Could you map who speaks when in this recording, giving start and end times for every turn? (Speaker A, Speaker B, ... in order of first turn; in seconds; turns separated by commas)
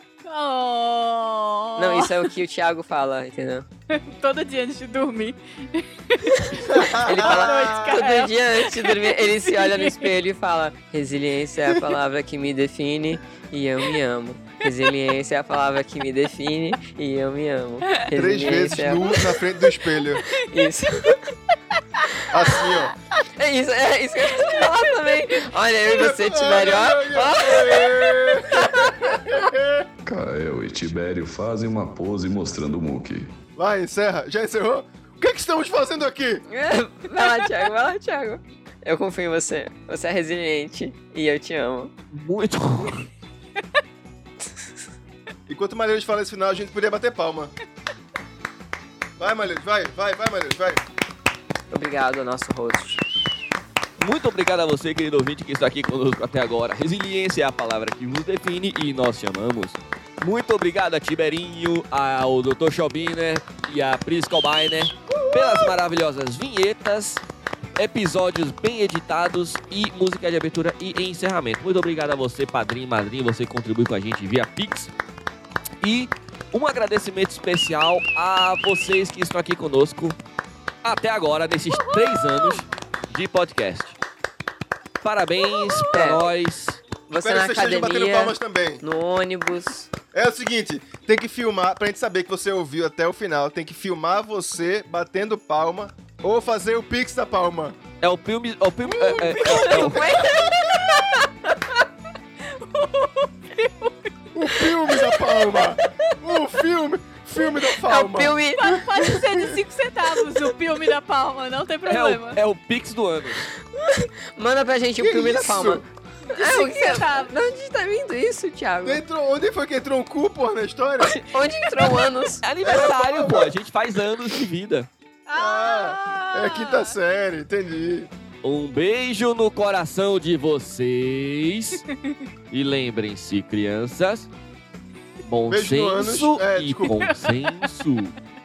Speaker A: 0.2-2.3, Speaker B: 1.8-3.6, Speaker A: 3.9-10.1, Speaker B: 6.4-19.2, Speaker C: 6.7-8.0, Speaker C: 18.1-20.2, Speaker B: 20.4-21.2, Speaker A: 20.4-21.1, Speaker C: 22.3-22.9, Speaker B: 23.3-28.9, Speaker A: 24.4-24.8, Speaker C: 25.9-29.9, Speaker D: 30.0-33.3, Speaker C: 33.5-36.4, Speaker B: 36.5-41.9, Speaker A: 37.1-37.7, Speaker E: 42.1-43.1, Speaker C: 45.5-47.5, Speaker C: 49.2-50.8, Speaker B: 51.7-53.0, Speaker E: 54.0-67.2, Speaker E: 67.8-74.9, Speaker E: 75.8-80.2, Speaker E: 80.8-84.0, Speaker A: 81.8-82.5, Speaker E: 85.0-86.8, Speaker B: 85.9-86.2, Speaker B: 87.1-89.9, Speaker C: 87.2-88.8, Speaker C: 90.1-97.8, Speaker E: 98.0-100.2, Speaker A: 99.0-101.3, Speaker C: 99.2-100.8, Speaker A: 102.5-105.6, Speaker C: 104.3-109.6, Speaker B: 107.8-108.8, Speaker A: 108.5-112.4, Speaker E: 111.9-113.5, Speaker B: 113.7-119.0, Speaker C: 115.0-115.8, Speaker A: 116.3-117.3, Speaker C: 118.8-121.2, Speaker B: 121.0-122.4, Speaker E: 122.4-124.9, Speaker C: 122.6-123.5, Speaker A: 125.3-126.9, Speaker C: 125.3-128.1, Speaker E: 128.4-131.8, Speaker E: 132.5-134.3, Speaker E: 135.2-138.1, Speaker C: 135.5-137.0, Speaker A: 136.9-137.7